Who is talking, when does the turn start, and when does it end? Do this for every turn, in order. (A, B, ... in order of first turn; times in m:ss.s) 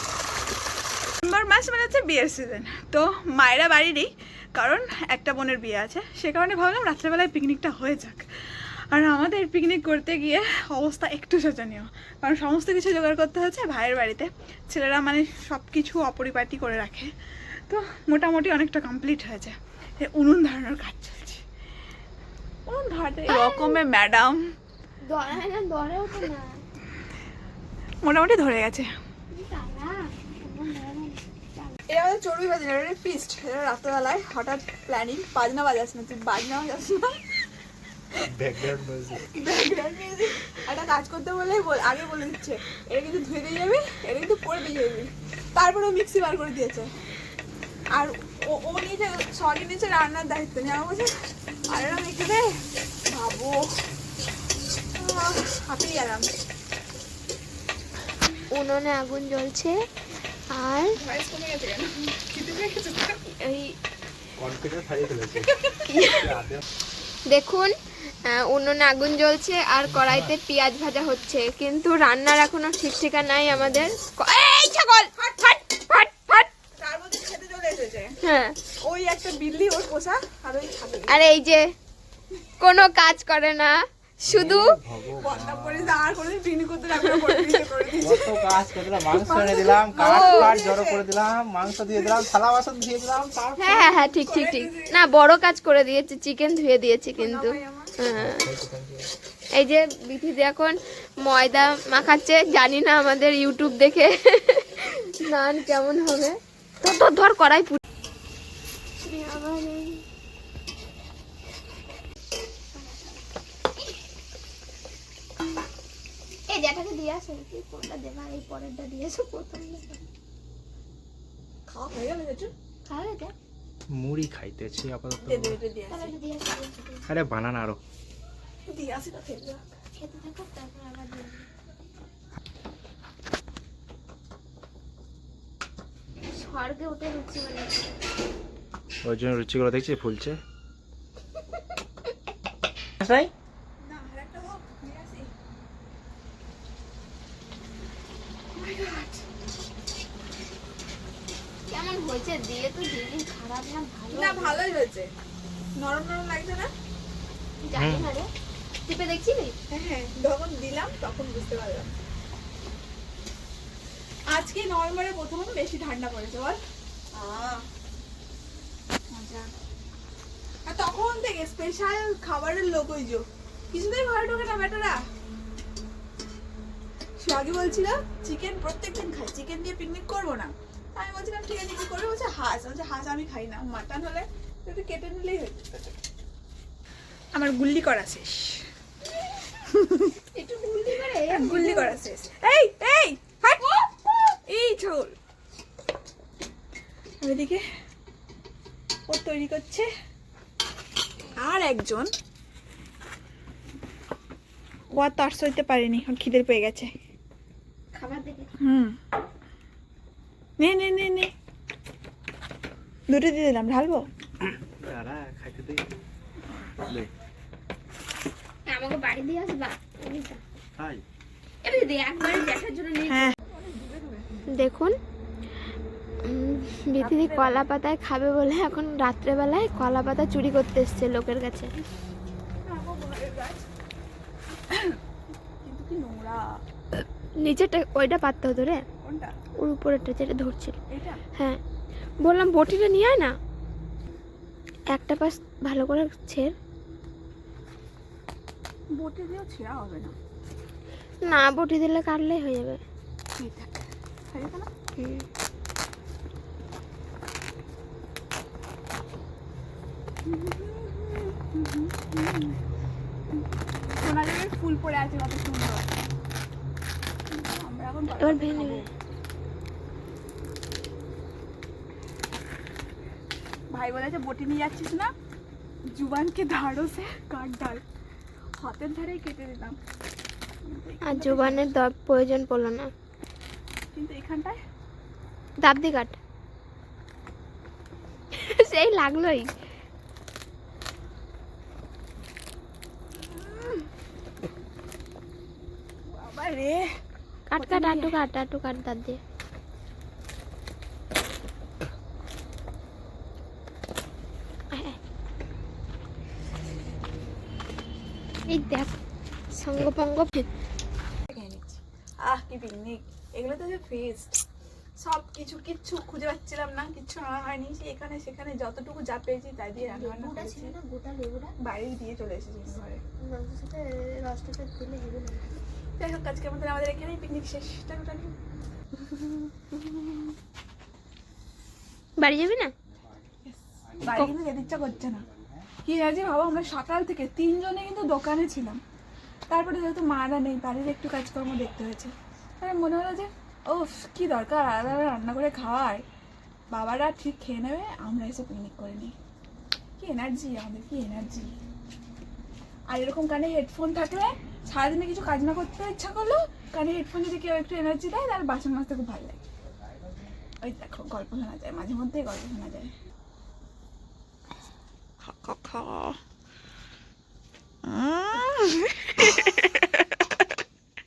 0:01.2-0:08.2 A
0:08.9-0:17.1 A
0:17.7-0:21.4 A
0:22.7-0:24.4 A
0:23.3-0:23.8 B
0:25.0-0:26.6 B
0:28.0-0:28.9 A
0:29.3-0:31.8 B
0:31.9-0:37.2 A
0:38.3-0:39.2 C
0:39.2-0:46.9 A
0:47.9-0:51.1 A
0:51.7-0:52.5 A
0:53.1-0:53.7 A
0:54.9-0:56.2 A
0:58.5-0:59.8 B
1:00.5-1:00.9 B
1:00.9-1:03.2 A
1:03.4-1:03.7 B
1:04.4-1:05.5 C
1:05.5-1:05.9 A
1:05.9-1:06.4 B
1:06.0-1:06.6 C
1:07.3-1:07.7 B
1:08.2-1:16.5 B
1:09.9-1:10.3 C
1:13.5-1:13.9 C
1:16.8-1:18.1 A
1:18.2-1:18.6 B
1:18.8-1:21.2 A
1:21.1-1:21.6 B
1:22.6-1:24.8 B
1:24.3-1:26.0 C
1:25.2-1:31.0 A
1:28.0-1:33.6 C
1:30.0-1:30.5 B
1:31.9-1:32.2 A
1:33.6-1:34.9 A
1:33.6-1:38.4 B
1:37.2-1:38.0 A
1:38.1-1:39.1 C
1:39.6-1:47.8 B
1:49.0-1:50.0 B
1:52.7-1:53.2 B
1:56.5-2:00.0 B
2:01.7-2:02.5 A
2:02.8-2:03.3 B
2:03.9-2:05.6 C
2:05.2-2:06.1 A
2:05.9-2:07.0 B
2:07.1-2:07.8 C
2:08.7-2:09.7 A
2:10.0-2:11.5 B
2:16.3-2:18.0 B
2:19.0-2:20.4 C
2:23.0-2:23.3 C
2:23.8-2:25.3 A
2:28.5-2:29.2 A
2:31.7-2:34.6 B
2:34.1-2:35.1 A
2:35.8-2:36.7 A
2:37.6-2:38.3 B
2:37.7-2:38.1 C
2:38.8-2:39.6 B
2:39.7-2:41.9 A
2:44.3-2:46.6 A
2:47.1-2:47.6 A
2:49.1-2:49.5 A
2:50.6-2:55.0 A
2:57.2-3:05.7 A
3:07.3-3:08.6 A
3:09.7-3:10.1 A
3:10.3-3:12.0 B
3:11.3-3:13.7 A
3:14.5-3:15.1 A
3:17.2-3:17.6 A
3:19.1-3:19.9 A
3:21.4-3:22.1 A
3:24.9-3:26.9 A
3:27.9-3:28.5 B
3:28.6-3:28.9 A
3:30.6-3:31.3 A
3:33.1-3:34.0 A
3:34.4-3:35.8 C
3:38.6-3:40.4 B
3:40.8-3:41.0 C
3:41.6-3:43.3 B
3:43.1-3:44.3 A
3:44.5-3:45.0 B
3:46.2-3:51.7 B
3:47.0-3:47.7 A
3:52.6-3:53.6 A
3:54.7-3:55.0 A
3:55.6-3:56.4 A
3:57.4-3:58.8 B
3:59.0-3:59.3 A
3:59.6-4:00.8 B
4:00.9-4:01.2 A
4:02.2-4:03.3 B
4:04.9-4:06.5 B
4:08.9-4:10.1 A
4:11.2-4:12.8 B
4:13.4-4:13.7 A
4:14.3-4:14.7 A
4:15.0-4:15.2 B
4:20.2-4:22.6 A
4:24.0-4:25.9 A
4:27.3-4:28.9 A
4:28.2-4:28.8 B
4:33.7-4:35.1 A
4:35.9-4:37.8 A
4:38.6-4:39.8 A
4:40.6-4:41.6 A
4:41.0-4:42.9 B
4:43.9-4:44.6 A
4:45.6-4:46.2 B
4:48.4-4:49.5 B
4:53.3-4:53.8 A
4:56.0-4:56.9 A
4:57.5-4:59.2 B
4:57.5-4:58.2 A
5:08.5-5:08.9 B
5:09.6-5:10.4 B
5:11.3-5:14.3 A
5:15.0-5:20.7 A
5:19.8-5:21.5 B
5:21.6-5:23.0 A
5:23.2-5:25.6 B
5:26.0-5:28.3 A
5:29.2-5:29.8 A
5:32.2-5:32.7 B
5:33.4-5:35.2 A
5:34.1-5:34.3 B
5:35.8-5:38.8 A
5:39.5-5:46.0 A
5:46.7-5:49.1 A
5:50.0-5:51.5 A
5:52.9-5:59.4 A
6:00.6-6:02.9 A
6:05.2-6:06.2 A
6:07.8-6:09.5 A